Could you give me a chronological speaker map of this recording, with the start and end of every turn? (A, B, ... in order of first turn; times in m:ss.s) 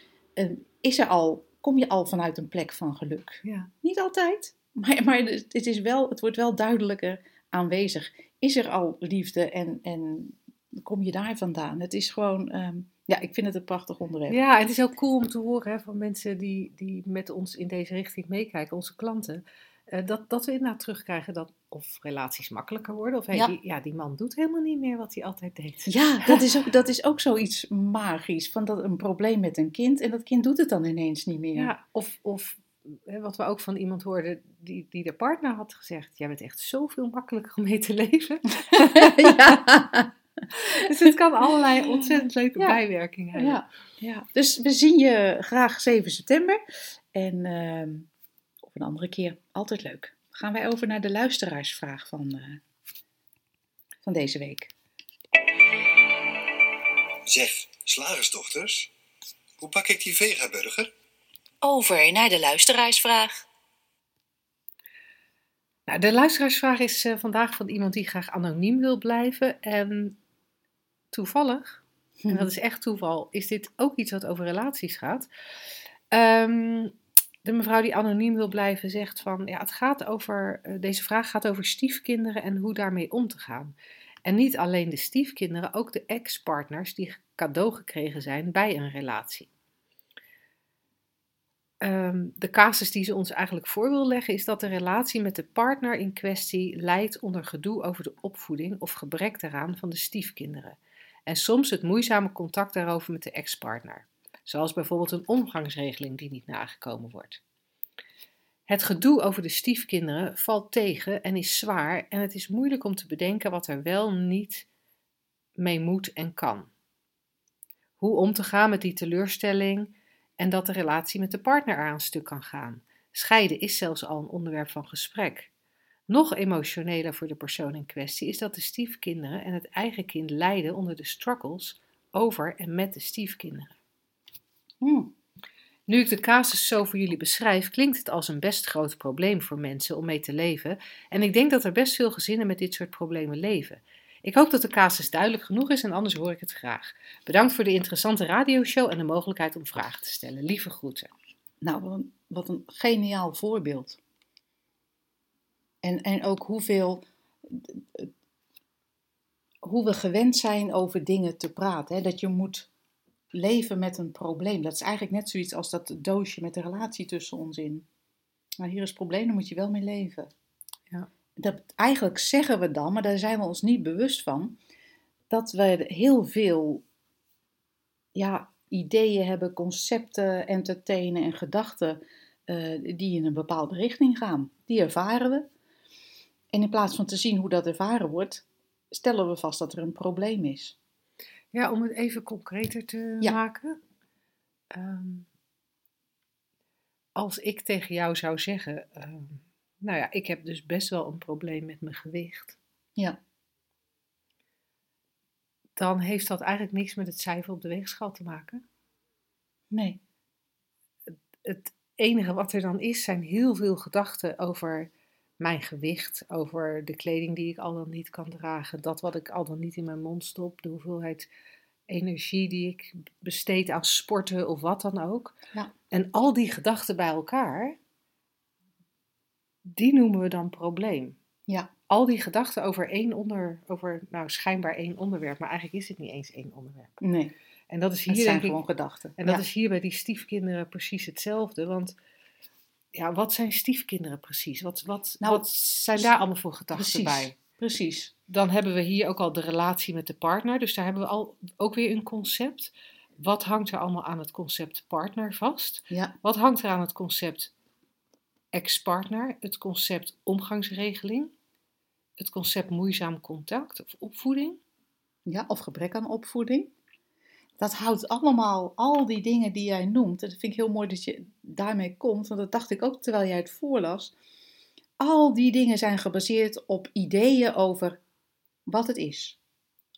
0:00.4-0:14.4 A
0:03.4-0:03.7 B
0:14.3-0:26.4 B
0:25.9-0:31.7 A
0:31.6-0:39.6 B
0:38.7-0:40.1 A
0:40.5-0:43.6 B
0:42.0-0:42.8 A
0:43.3-0:46.6 A
0:47.1-0:48.1 A
0:48.6-0:52.6 A
0:54.0-0:54.7 A
0:57.3-0:58.9 C
0:59.6-1:00.9 C
1:01.6-1:03.4 A
1:05.9-1:10.2 B
1:11.1-1:15.3 B
1:12.2-1:12.5 A
1:16.1-1:16.9 B
1:17.4-1:23.7 B
1:24.2-1:29.5 B
1:31.8-1:47.4 B
1:48.7-1:54.7 B
1:55.6-1:56.7 B
1:58.0-2:05.5 B
2:06.1-2:13.7 B
2:14.8-2:15.1 A
2:15.9-2:31.1 B
2:31.6-2:34.0 A
2:35.8-2:38.1 A
2:39.6-2:42.7 A
2:43.3-2:47.8 A
2:48.6-2:50.3 A
2:51.4-2:54.6 A
2:55.3-2:56.8 A
2:58.1-3:05.5 A
3:06.5-3:10.8 A
3:11.5-3:13.8 B
3:14.7-3:15.3 B
3:17.2-3:22.6 B
3:25.8-3:28.6 B
3:29.7-3:30.0 A
3:31.4-3:34.9 B
3:35.4-3:41.3 B
3:41.9-3:45.3 B
3:45.9-3:47.8 B
3:49.7-3:51.2 B
3:51.9-3:57.0 B
3:57.0-3:57.3 A
3:57.7-3:58.6 B
3:58.1-3:59.4 A
3:59.2-4:01.9 B
4:02.9-4:07.4 B
4:05.2-4:06.2 A
4:06.7-4:08.1 A
4:08.3-4:17.5 B
4:18.5-4:21.3 B
4:22.2-4:24.6 B
4:25.2-4:26.7 A
4:27.6-4:34.1 A
4:35.0-4:38.0 A
4:38.7-4:39.4 A